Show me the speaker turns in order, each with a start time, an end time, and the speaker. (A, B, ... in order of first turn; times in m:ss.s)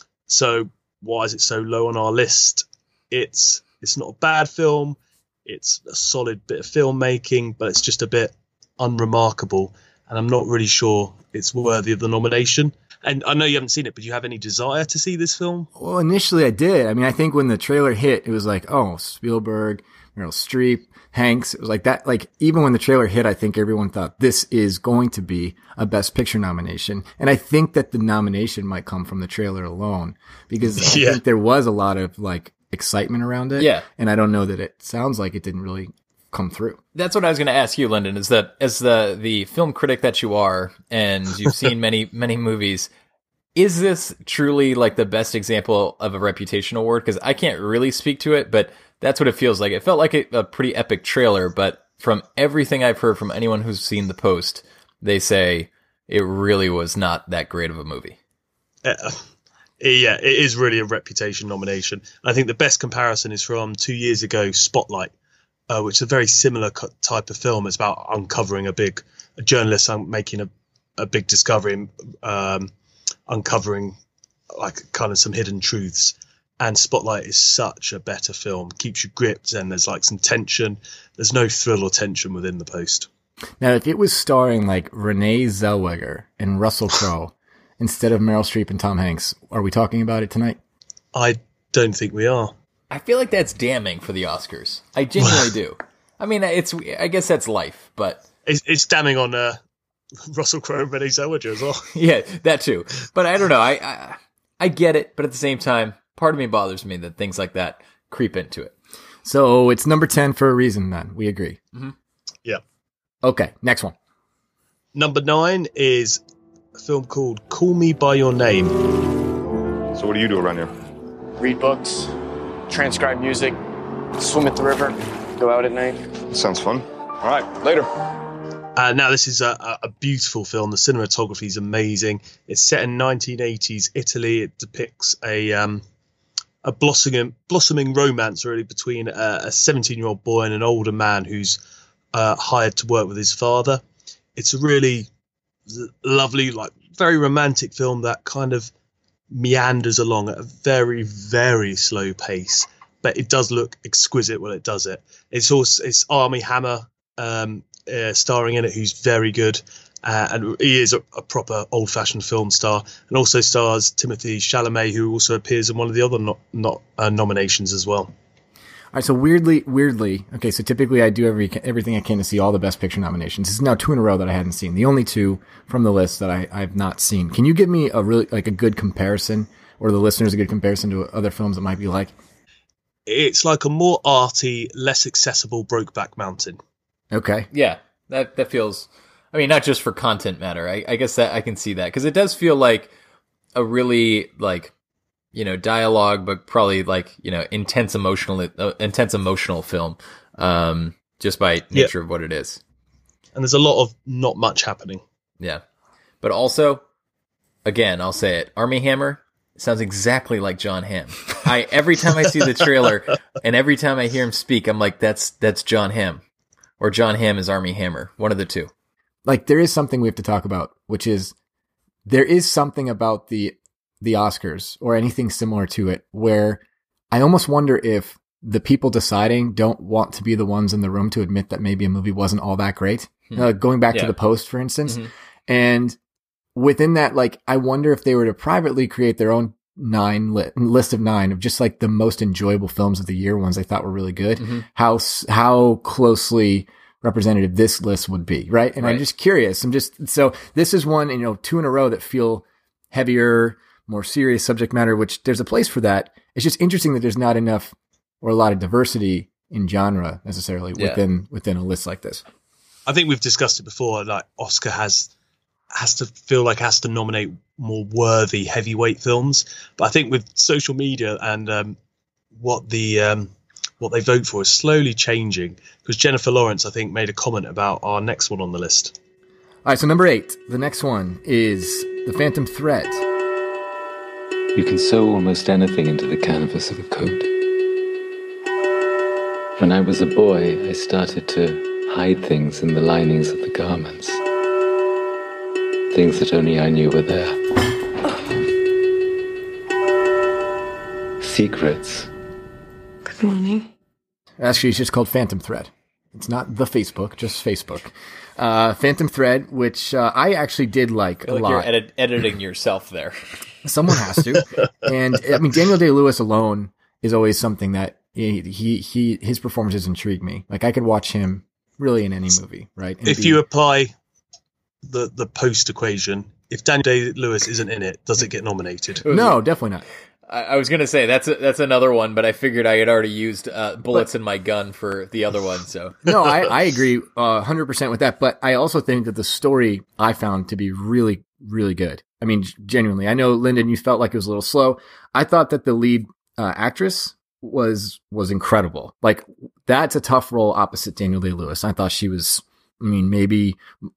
0:00.3-0:15.7 A
0:15.8-0:36.8 B
0:30.8-0:31.2 A
0:33.6-0:33.9 C
0:37.0-0:42.9 C
0:43.6-0:58.2 C
0:58.8-0:59.2 A
0:59.8-1:05.1 A
1:05.7-1:12.7 A
1:13.3-1:14.0 A
1:14.6-1:23.1 A
1:23.6-1:30.6 B
1:31.1-1:32.5 A
1:32.9-1:38.2 C
1:35.2-1:35.4 A
1:38.5-1:39.6 A
1:40.3-1:41.9 A
1:41.9-1:48.7 C
1:49.2-1:51.6 B
1:53.2-1:54.0 B
1:55.0-1:56.2 A
1:56.8-1:58.8 A
1:59.9-2:00.7 D
2:01.4-2:02.1 E
2:02.7-2:03.6 E
2:04.2-2:06.0 E
2:06.3-2:07.4 D
2:07.4-2:07.9 E
2:08.8-2:15.8 A
2:16.6-2:21.6 A
2:22.1-2:23.8 A
2:24.4-2:25.1 A
2:25.7-2:28.7 A
2:29.3-2:48.1 A
2:48.9-3:02.1 B
3:03.1-3:06.6 A
3:07.1-3:07.5 B
3:07.5-3:12.9 C
3:13.6-3:14.7 C
3:15.3-3:22.6 C
3:23.4-3:25.0 A
3:26.2-3:26.8 C
3:27.6-3:36.2 C
3:36.8-3:38.7 C
3:39.2-3:41.3 B
3:42.0-3:56.0 B
3:53.3-3:54.2 C
3:56.6-4:22.2 B
4:04.4-4:04.7 C
4:20.8-4:21.0 C
4:22.9-4:25.1 A
4:25.7-4:31.8 A
4:32.4-4:39.0 A
4:39.6-4:43.0 B
4:44.6-4:47.3 F
4:49.6-4:54.2 F
4:55.9-4:57.4 F
5:01.2-5:02.1 F
5:04.4-5:11.7 B
5:11.3-5:13.2 C
5:13.6-5:23.4 B
5:23.0-5:23.9 A
5:24.8-5:29.0 A
5:29.0-5:29.4 C
5:29.1-5:29.9 B
5:30.3-5:36.1 C
5:36.0-5:53.6 B